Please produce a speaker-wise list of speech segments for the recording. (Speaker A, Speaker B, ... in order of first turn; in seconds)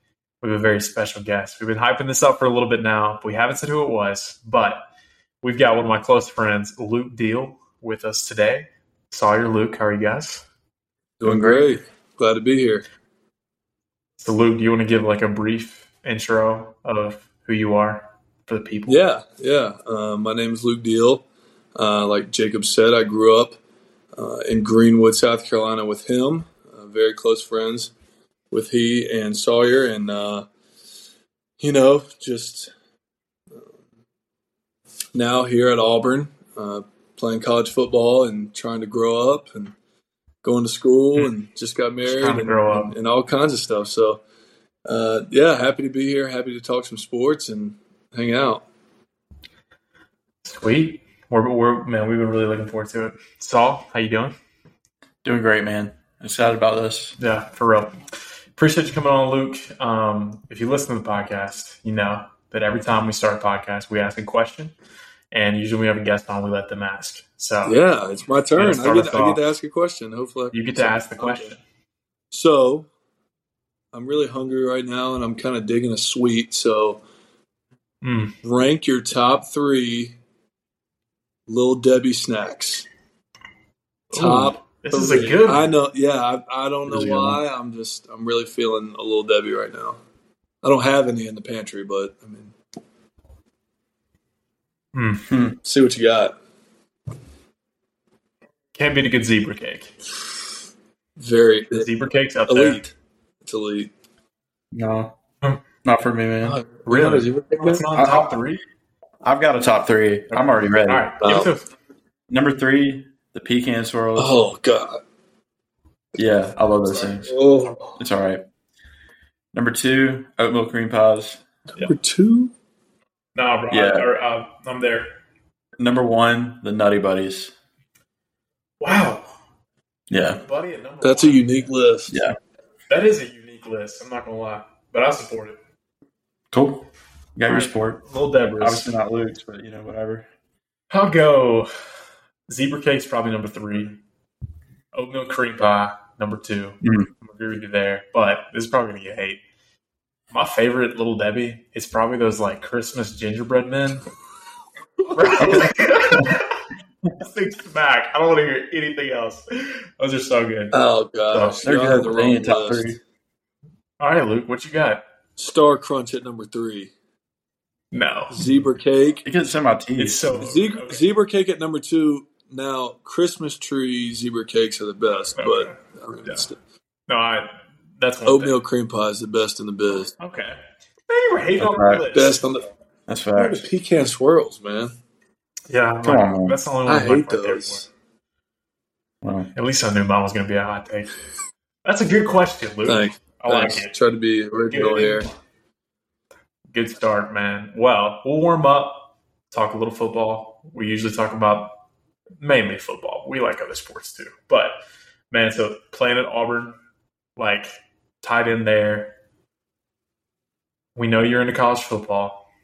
Speaker A: 0.4-4.8, 5.4-10.4, 14.2-19.0, 42.0-43.0, 50.4-54.4, 57.2-58.0, 58.5-64.7, 65.3-67.8, 68.6-69.4, 70.5-71.6, 78.0-78.3, 84.1-85.7, 86.9-87.4, 94.9-95.2, 98.7-99.9, 101.8-102.9, 106.8-108.6, 110.3-111.7, 116.9-117.2, 123.3-125.1, 128.8-129.2, 130.3-131.7, 132.9-135.6, 137.5-138.9, 140.9-141.7, 142.5-144.0, 144.9-149.4, 150.3-154.0, 155.1-156.6, 157.2-160.8, 161.3-161.7, 164.0-165.0, 167.9-168.4, 170.0-171.0, 175.3-176.5, 177.1-178.5, 180.2-182.4, 185.7-187.9, 189.5-191.1, 191.8-193.9, 194.7-195.3, 196.7-201.8, 202.4-204.8, 205.3-206.8, 207.3-209.1, 210.9-212.4
Speaker B: 11.2-12.8, 18.9-21.2, 21.7-23.5, 24.1-27.9, 28.5-30.5, 31.6-32.7, 35.1-39.8, 40.4-44.2, 44.9-48.6, 67.6-71.5, 72.3-72.9, 73.9-77.0, 78.4-80.2, 81.5-82.8, 84.1-90.0, 90.6-92.5, 95.6-96.3, 101.2-101.9, 102.5-102.9, 103.4-103.9, 106.4-107.8, 111.2-111.5, 114.2-115.0, 117.3-118.0, 121.8-122.5, 131.0-132.2, 160.7-162.9, 165.4-166.9, 168.3-169.2, 170.3-176.6, 178.3-180.1, 182.1-182.7, 183.3-184.9, 186.8-187.9, 192.8-195.3
Speaker C: 11.2-11.8, 55.2-57.2, 95.3-95.6, 104.7-105.2, 105.8-106.6, 107.9-108.3, 109.2-111.1, 112.3-114.3, 116.2-117.3, 118.0-118.4, 119.5-121.4, 123.7-124.1, 125.8-127.5, 130.1-130.4, 132.1-132.3, 136.5-138.1, 138.6-140.3, 146.8-147.1, 155.4-156.3, 161.6-163.0, 169.2-170.3, 181.6-182.0, 183.1-183.6, 186.0-186.6, 189.2-189.5